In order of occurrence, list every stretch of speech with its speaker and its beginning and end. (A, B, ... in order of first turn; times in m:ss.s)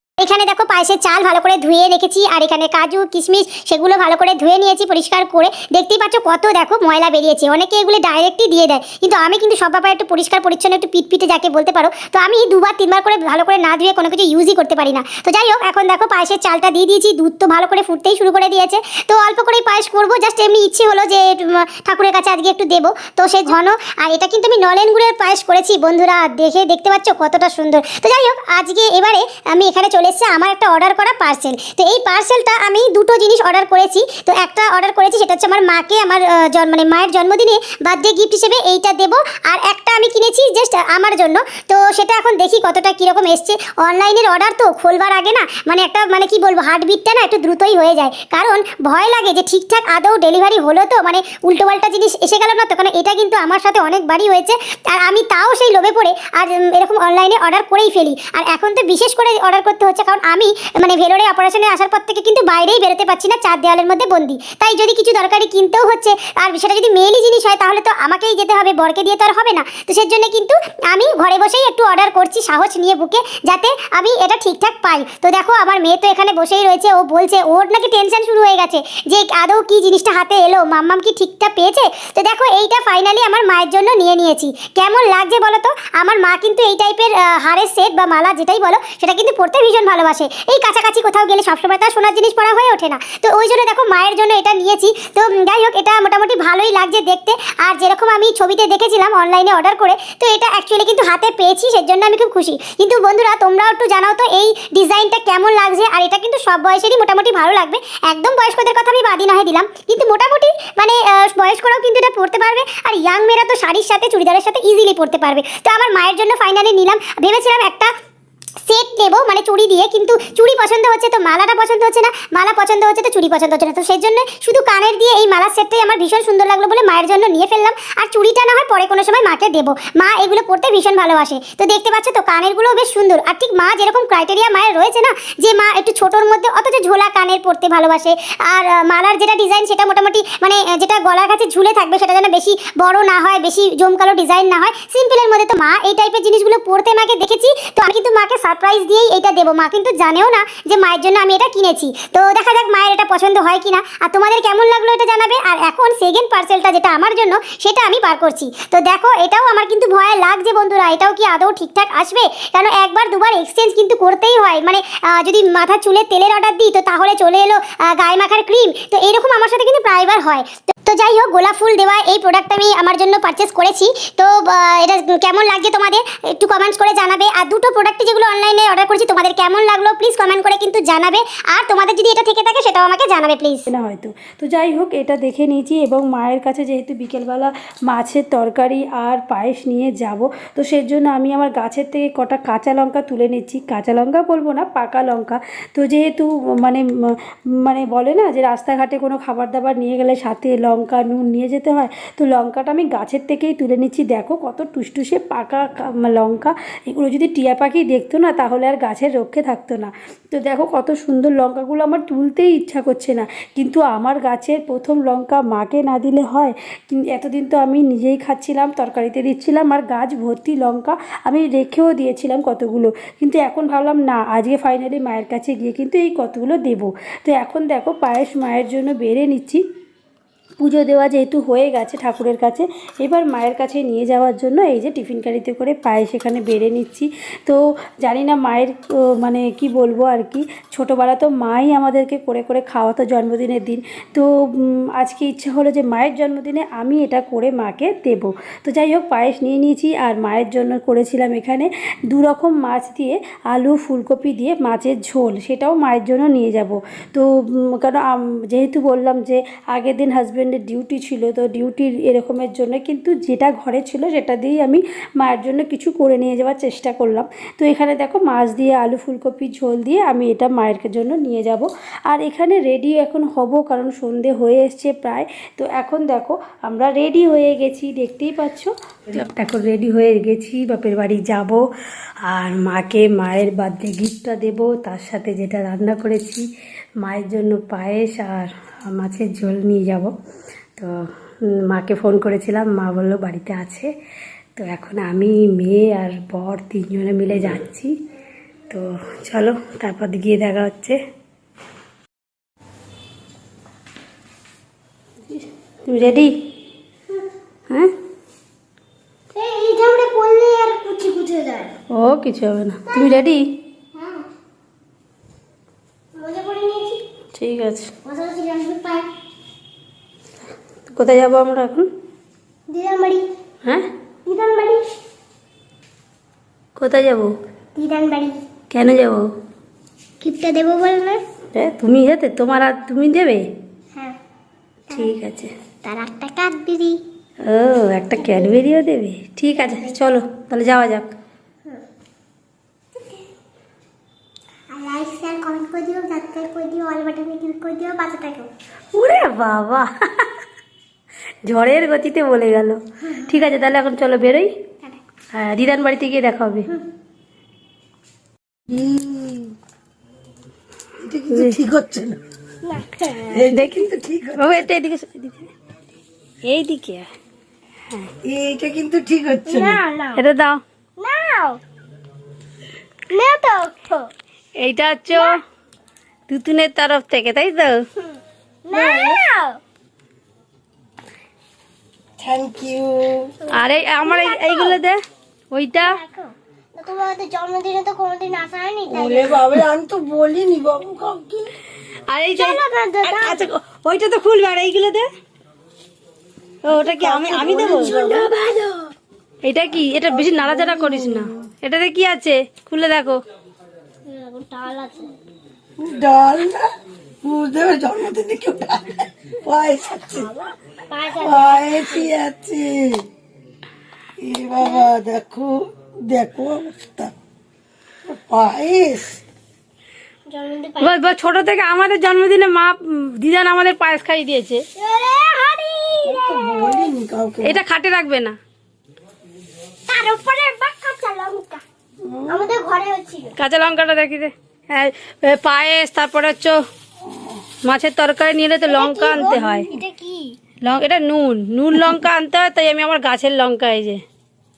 0:00.2-1:57.9 A
1:58.7-3:03.6 A
3:03.7-3:49.6 B
3:50.6-4:41.6 B
4:42.2-4:46.4 B
4:47.0-4:50.1 B
4:51.7-4:53.9 B
4:54.6-4:57.9 B
4:58.7-5:01.0 B
5:05.8-5:06.3 B
5:09.3-5:11.7 C
5:11.9-5:13.4 B
5:12.9-5:13.2 C
5:13.9-5:14.2 C
5:16.1-5:17.0 C
5:17.4-5:17.9 B
5:18.0-5:19.1 C
5:20.9-5:21.9 B
5:22.7-5:23.3 C
5:24.2-5:24.9 C
5:26.8-5:27.3 B
5:27.7-5:28.4 C
5:28.7-5:29.3 B
5:30.2-5:31.2 C
5:31.5-5:33.4 B
5:34.9-5:35.2 C
5:34.9-5:35.5 B
5:35.8-5:37.0 C
5:37.4-5:41.1 B
5:38.2-5:38.5 C
5:39.7-5:39.9 C
5:43.0-5:43.2 C
5:44.7-5:48.5 C
5:48.9-5:49.9 B
5:51.5-5:54.5 B
5:55.3-5:56.7 B
5:58.7-5:59.5 D
6:01.0-6:02.2 D
6:01.3-6:01.6 B
6:02.6-6:03.4 C
6:03.3-6:04.6 D
6:03.5-6:05.5 B
6:06.4-6:07.0 B
6:08.2-6:09.8 D
6:09.5-6:10.2 C
6:10.2-6:10.6 B
6:11.0-6:11.6 C
6:13.1-6:14.1 C
6:14.6-6:15.4 B
6:15.1-6:15.4 C
6:16.3-6:17.8 B
6:18.6-6:19.6 C
6:18.7-6:19.2 D
6:22.2-6:23.3 D
6:23.5-6:24.8 C
6:23.5-6:25.0 B
6:25.5-6:26.0 B
6:25.7-6:29.5 C
6:28.9-6:31.5 D
6:32.1-6:35.0 B
6:32.3-6:33.4 C
6:36.6-6:38.0 B
6:36.7-6:38.7 D
6:39.4-6:43.2 B
6:40.1-6:41.5 D
6:44.0-6:45.1 C
6:45.8-6:46.7 D
6:47.2-6:50.3 D
6:50.1-6:52.1 C
6:51.2-6:53.0 D
6:54.2-6:57.1 D
6:54.6-6:54.9 C
6:58.0-6:59.2 D
7:00.3-7:01.1 C
7:00.8-7:04.6 B
7:04.8-7:06.9 C
7:06.0-7:07.6 D
7:07.4-7:08.4 B
7:09.9-7:11.6 C
7:12.0-7:12.5 D
7:12.3-7:13.3 C
7:13.4-7:16.6 B
7:17.0-7:17.4 D
7:17.6-7:19.7 B
7:18.6-7:20.4 C
7:20.6-7:24.0 B